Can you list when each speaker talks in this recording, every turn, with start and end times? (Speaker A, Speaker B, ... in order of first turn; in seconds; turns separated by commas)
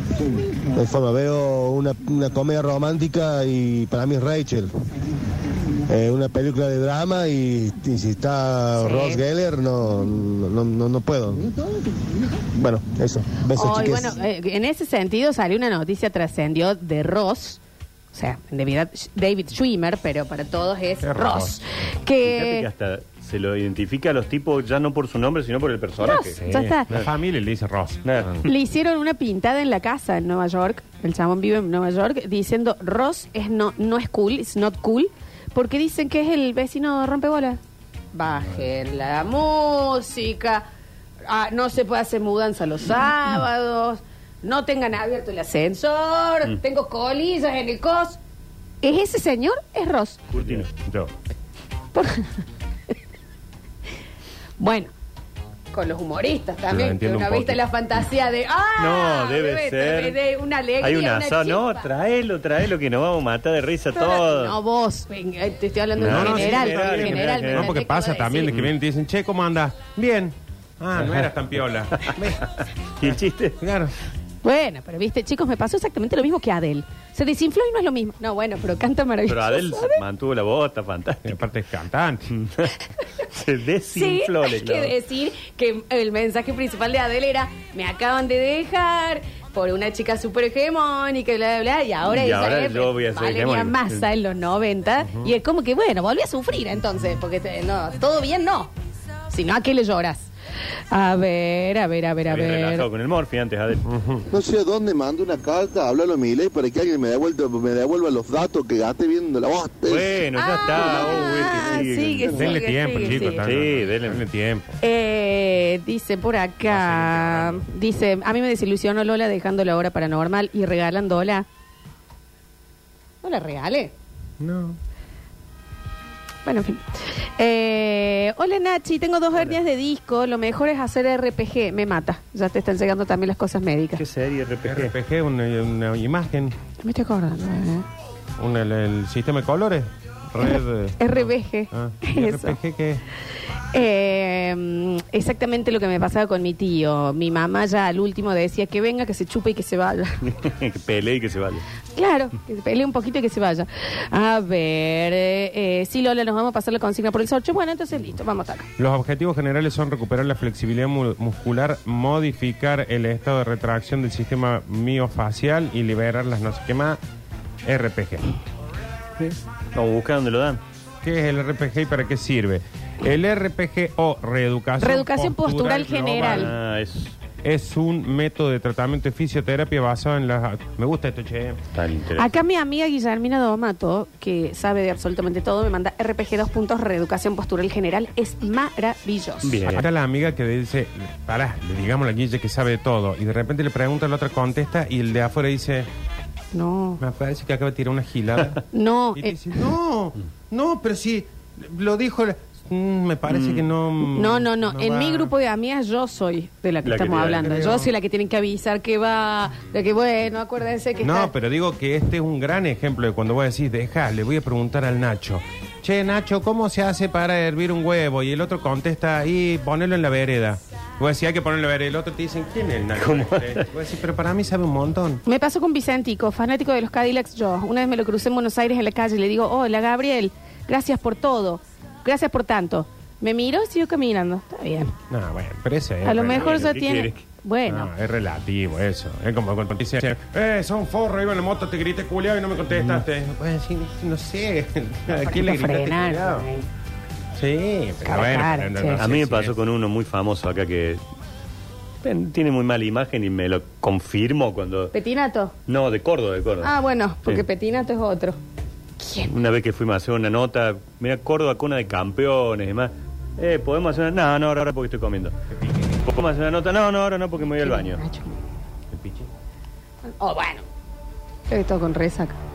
Speaker A: 0.7-4.7, Speaker A: 5.9-11.5, Speaker B: 8.8-9.2, Speaker A: 12.5-14.2, Speaker B: 13.5-17.6, Speaker B: 18.1-22.6, Speaker C: 21.0-21.7, Speaker D: 22.2-26.4, Speaker B: 26.0-26.9, Speaker C: 26.4-28.5, Speaker D: 28.0-28.4, Speaker B: 28.4-37.6, Speaker B: 38.1-40.6, Speaker B: 41.3-48.2, Speaker B: 48.8-50.2, Speaker D: 50.3-50.7, Speaker C: 50.4-51.1, Speaker B: 51.9-52.3, Speaker B: 54.6-54.9, Speaker B: 55.7-61.9, Speaker C: 56.7-57.6, Speaker D: 58.8-60.2, Speaker D: 60.8-64.6, Speaker B: 63.9-68.5, Speaker D: 66.0-67.7, Speaker C: 66.0-72.5, Speaker D: 71.0-71.3, Speaker D: 72.0-73.6, Speaker C: 73.0-73.9, Speaker B: 74.4-80.0, Speaker D: 79.3-81.4, Speaker C: 81.2-82.3, Speaker D: 82.3-82.7, Speaker D: 83.3-85.0, Speaker B: 83.9-98.7, Speaker D: 92.1-94.0, Speaker C: 95.0-95.3, Speaker B: 99.3-100.3, Speaker B: 100.9-102.8, Speaker D: 102.3-103.8, Speaker C: 103.8-104.3, Speaker E: 104.3-110.2, Speaker D: 109.8-112.5, Speaker B: 110.3-113.4, Speaker C: 112.3-114.7, Speaker D: 113.4-114.2, Speaker B: 114.8-121.5, Speaker C: 116.7-117.7, Speaker B: 123.2-123.9, Speaker C: 124.4-124.8, Speaker B: 126.5-126.8, Speaker B: 127.4-134.0, Speaker D: 134.0-134.9, Speaker C: 134.6-136.6, Speaker B: 136.8-137.8, Speaker C: 138.4-143.0, Speaker B: 141.0-142.6, Speaker B: 143.7-150.2, Speaker D: 150.2-151.6, Speaker B: 151.9-158.7, Speaker C: 158.8-167.0, Speaker C: 167.6-168.3, Speaker D: 169.2-170.6, Speaker C: 171.0-176.5, Speaker B: 174.8-176.5, Speaker D: 176.1-177.2, Speaker C: 177.4-181.6, Speaker D: 181.7-182.3, Speaker B: 182.2-189.6, Speaker D: 189.4-189.8, Speaker C: 189.7-195.9, Speaker B: 196.5-197.0, Speaker C: 197.0-198.6, Speaker B: 198.7-199.3, Speaker C: 199.1-205.3, Speaker D: 203.3-203.7, Speaker B: 204.1-211.3, Speaker D: 206.8-207.6, Speaker C: 207.3-207.9, Speaker C: 211.0-225.2, Speaker D: 223.0-223.6, Speaker B: 225.2-234.9, Speaker C: 235.1-236.8, Speaker B: 236.0-237.9, Speaker D: 236.3-237.2, Speaker C: 237.7-246.4, Speaker B: 245.1-246.7, Speaker C: 247.3-249.6, Speaker B: 248.0-249.0, Speaker D: 249.0-251.0, Speaker D: 252.0-254.9, Speaker B: 254.9-255.5, Speaker D: 255.7-257.4, Speaker B: 256.6-258.4, Speaker B: 259.0-259.3, Speaker D: 259.3-265.3, Speaker C: 265.5-266.0, Speaker D: 266.0-268.0, Speaker B: 267.5-268.4, Speaker C: 268.9-269.3, Speaker B: 270.2-270.6, Speaker B: 271.5-272.4